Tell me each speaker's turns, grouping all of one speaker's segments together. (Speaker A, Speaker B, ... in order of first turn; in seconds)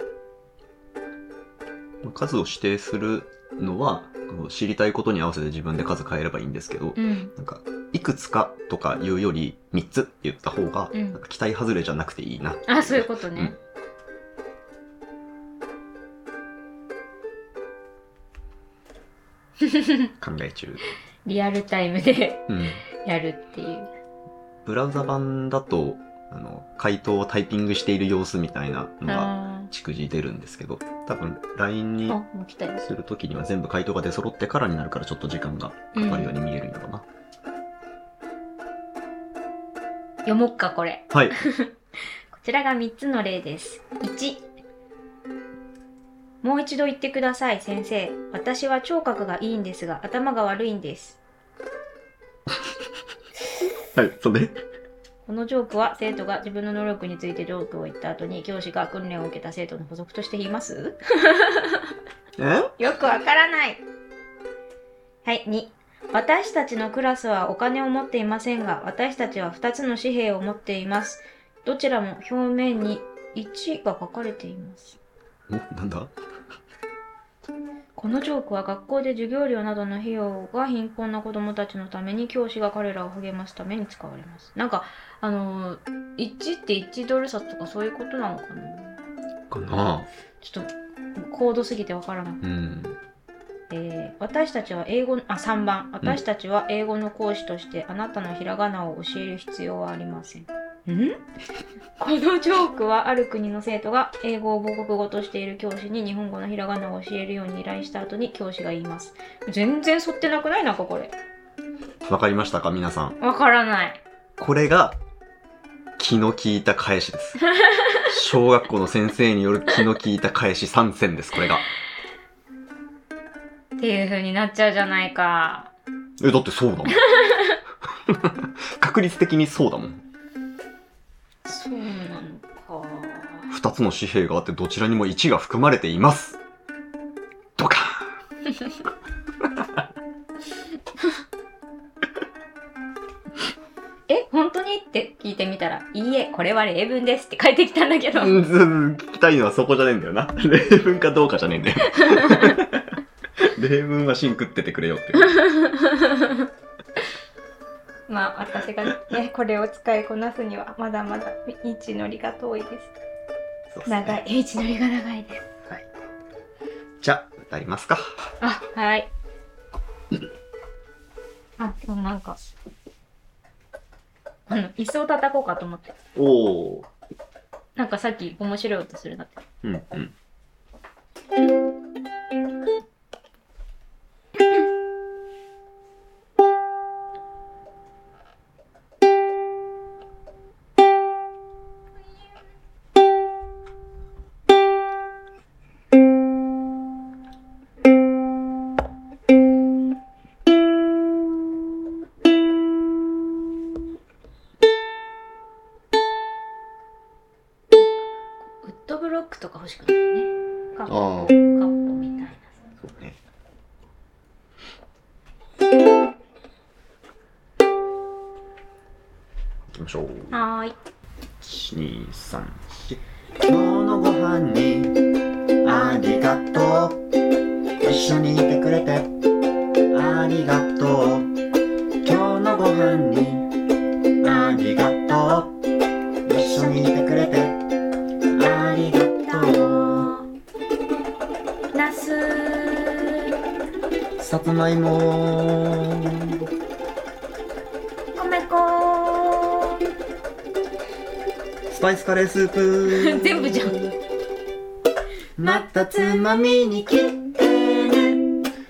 Speaker A: 2.0-13.6, 20.2-20.8, 22.5-22.8, 24.6-32.2, 32.8-37.0, 41.1-41.4, 53.9-54.6, 62.4-62.8, 75.5-76.1, 89.5-90.1, 92.4-93.0, 112.1-113.2, 114.4-115.0, 116.0-117.4, 118.0-121.7, 126.2-127.1, 128.1-130.0, 133.5-136.4, 137.6-138.1, 148.1-155.4, 163.7-164.2, 167.0-168.2, 176.1-176.9, 179.6-180.1, 210.9-211.3, 212.8-213.2, 219.8-220.4, 221.4-225.0, 225.6-227.0, 227.8-229.1, 229.9-231.3, 232.0-233.5, 234.2-235.6, 236.2-237.6, 238.3-240.1, 244.2-246.4, 251.7-253.9, 255.4-258.2
Speaker B: 7.0-7.3, 10.9-11.2, 12.7-13.6, 19.6-20.1, 21.2-23.9, 29.1-29.7, 32.1-32.8, 35.9-36.3, 40.2-41.7, 42.3-44.5, 46.4-51.2, 55.2-61.9, 62.8-63.8, 65.2-75.0, 78.0-89.0, 90.4-92.4, 93.7-101.3, 102.0-111.1, 113.2-114.0, 117.6-118.0, 123.8-125.7, 127.0-127.6, 131.4-133.5, 144.1-148.4, 151.9-152.6, 155.2-156.5, 158.1-162.9, 163.8-165.5, 168.4-169.1, 171.6-172.4, 174.5-175.9, 177.8-179.4, 207.7-212.7, 220.3-220.8, 239.3-240.2, 241.7-243.4, 248.1-249.8, 252.8-253.8, 255.4-256.2